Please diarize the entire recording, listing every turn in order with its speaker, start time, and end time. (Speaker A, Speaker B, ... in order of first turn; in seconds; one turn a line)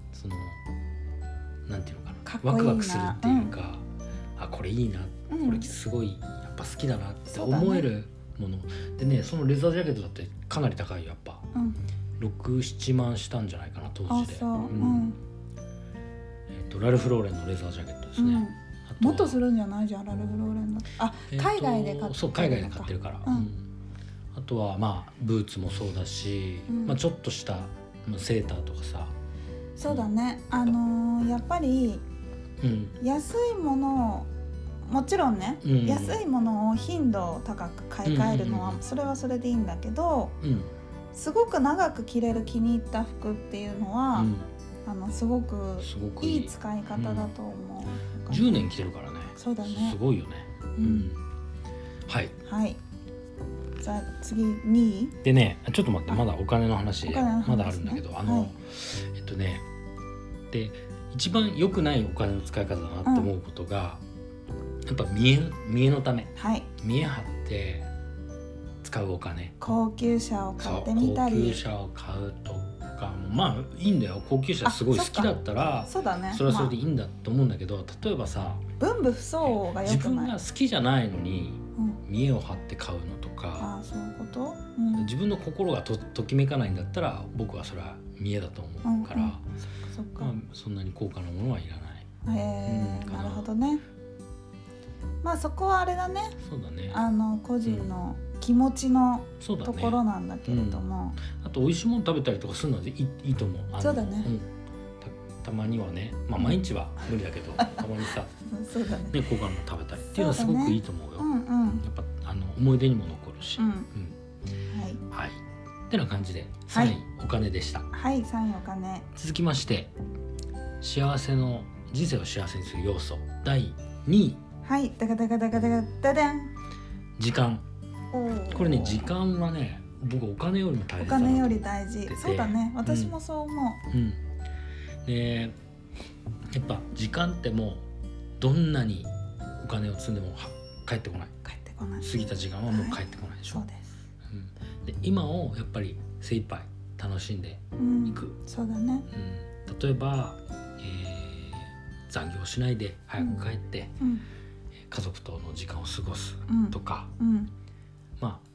Speaker A: 0.1-0.6
Speaker A: 1.6-3.8
Speaker B: 2.2-3.5
Speaker A: 4.4-11.5
Speaker B: 5.3-5.7
Speaker B: 7.3-7.9
Speaker A: 12.2-15.1
Speaker B: 14.1-15.2
Speaker A: 16.5-19.4
Speaker B: 18.2-23.5
Speaker A: 21.3-23.6
Speaker A: 24.3-29.1
Speaker B: 26.7-27.0
Speaker B: 29.8-32.0
Speaker A: 32.6-33.0
Speaker B: 33.0-34.3
Speaker B: 34.9-40.3
Speaker A: 35.6-36.2
Speaker A: 38.0-38.8
Speaker A: 40.4-40.7
Speaker B: 41.1-44.3
Speaker A: 44.1-44.5
Speaker B: 44.8-48.7
Speaker A: 45.8-47.3
Speaker A: 48.3-51.2
Speaker B: 49.3-50.0
Speaker B: 50.8-51.1
Speaker A: 52.1-52.4
Speaker B: 52.4-52.8
Speaker B: 53.8-55.1
Speaker A: 55.2-59.6
Speaker B: 57.0-58.5
Speaker A: 60.5-64.0
Speaker B: 63.0-63.3
Speaker A: 64.9-67.9
Speaker B: 66.3-66.7
Speaker A: 68.8-69.6
Speaker B: 69.6-71.6
Speaker A: 70.6-78.6
Speaker B: 74.6-75.3
Speaker B: 75.8-76.7
Speaker B: 78.8-80.3
Speaker A: 79.4-83.7
Speaker B: 83.6-85.1
Speaker A: 84.9-89.4
Speaker B: 88.8-89.3
Speaker B: 89.9-90.3
Speaker A: 90.2-92.0
Speaker B: 92.2-93.8
Speaker A: 92.7-93.5
Speaker B: 95.2-96.3
Speaker A: 96.4-97.0
Speaker B: 96.9-101.2
Speaker A: 97.6-97.9
Speaker A: 99.4-104.5
Speaker B: 103.8-104.3
Speaker A: 105.0-108.3
Speaker B: 108.4-109.2
Speaker A: 109.1-111.3
Speaker B: 110.1-111.8
Speaker A: 111.8-114.2
Speaker B: 113.6-113.9
Speaker B: 114.7-115.0
Speaker A: 115.1-117.9
Speaker B: 117.9-119.0
Speaker A: 119.1-119.9
Speaker A: 120.8-124.4
Speaker B: 124.6-126.5
Speaker A: 127.2-127.6
Speaker B: 128.1-129.1
Speaker A: 128.5-133.1
Speaker B: 131.0-133.8
Speaker A: 133.9-134.2
Speaker A: 135.0-135.5
Speaker A: 136.5-137.8
Speaker A: 138.4-141.3
Speaker B: 141.4-142.1
Speaker A: 142.0-143.6
Speaker B: 142.7-143.9
Speaker A: 144.3-148.3
Speaker B: 147.8-149.1
Speaker A: 149.1-153.9
Speaker A: 154.9-157.1
Speaker B: 156.5-157.5
Speaker A: 158.2-158.4